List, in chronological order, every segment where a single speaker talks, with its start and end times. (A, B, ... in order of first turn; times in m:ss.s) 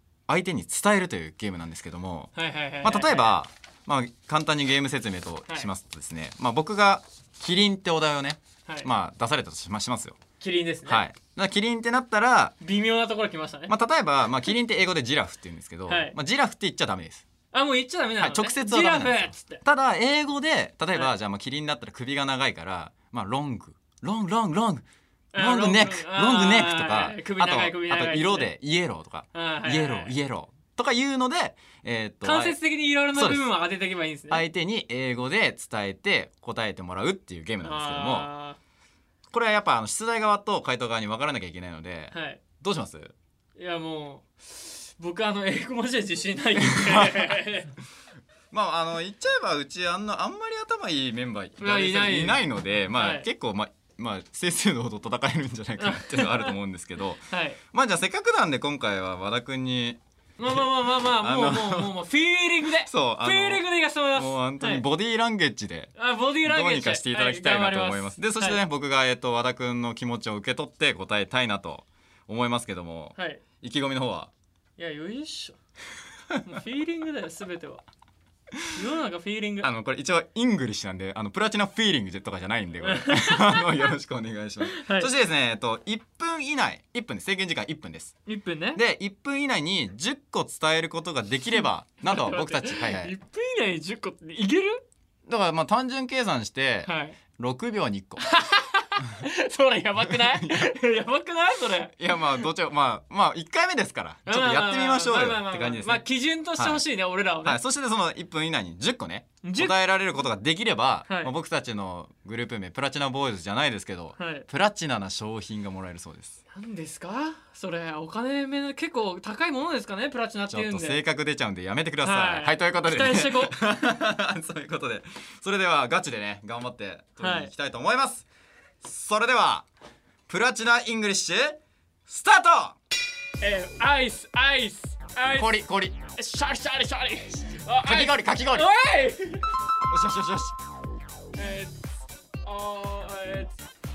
0:00.3-0:02.3 A
0:02.4-0:03.4 B
0:02.8-0:10.2 A
0:10.4-0:11.0 B
0:10.9-0:12.6 A
0:12.6-0:13.7 B
0:13.7-0:17.2 A
0:15.9-0:16.1 B
0:17.5-0:19.6 B
0:18.2-0:32.6 A
0:25.3-0:28.5 B
0:29.3-0:30.1 B
0:32.2-0:34.4 B
0:33.1-0:33.5 A
0:34.3-0:38.3 A
0:37.6-0:38.6 B
0:39.3-0:43.2 A
0:42.1-0:42.4 B
0:43.6-0:47.7 B
0:46.6-0:47.3 A
0:48.5-1:02.0 A
0:51.6-0:52.4 B
0:52.9-0:53.3 B
0:55.8-0:56.5 B
0:57.3-0:57.6 B
1:00.4-1:04.8 B
1:02.8-1:14.3 A
1:06.0-1:08.6 B
1:13.2-1:13.4 B
1:14.8-1:15.6 B
1:16.4-1:17.8 B
1:18.8-1:19.7 B
1:19.6-1:28.2 A
1:22.8-1:23.8 B
1:24.6-1:25.1 B
1:28.3-1:28.8 B
1:28.8-1:33.2 A
1:32.0-1:34.8 B
1:35.3-1:38.3 A
1:36.9-1:37.2 B
1:38.2-1:41.9 B
1:40.0-1:40.7 A
1:42.0-1:46.0 A
1:44.3-1:47.6 B
1:46.6-1:46.9 A
1:47.4-1:56.4 A
1:49.4-1:49.7 B
1:54.2-1:54.5 B
1:56.5-2:01.0 B
2:00.5-2:08.3 A
2:02.0-2:03.5 B
2:07.2-2:07.5 B
2:08.8-2:09.7 A
2:10.3-2:12.8 A
2:13.4-2:15.5 B
2:15.3-2:16.0 A
2:16.2-2:19.5 B
2:17.8-2:18.7 A
2:19.9-2:20.6 A
2:21.4-2:21.8 B
2:22.4-2:23.5 B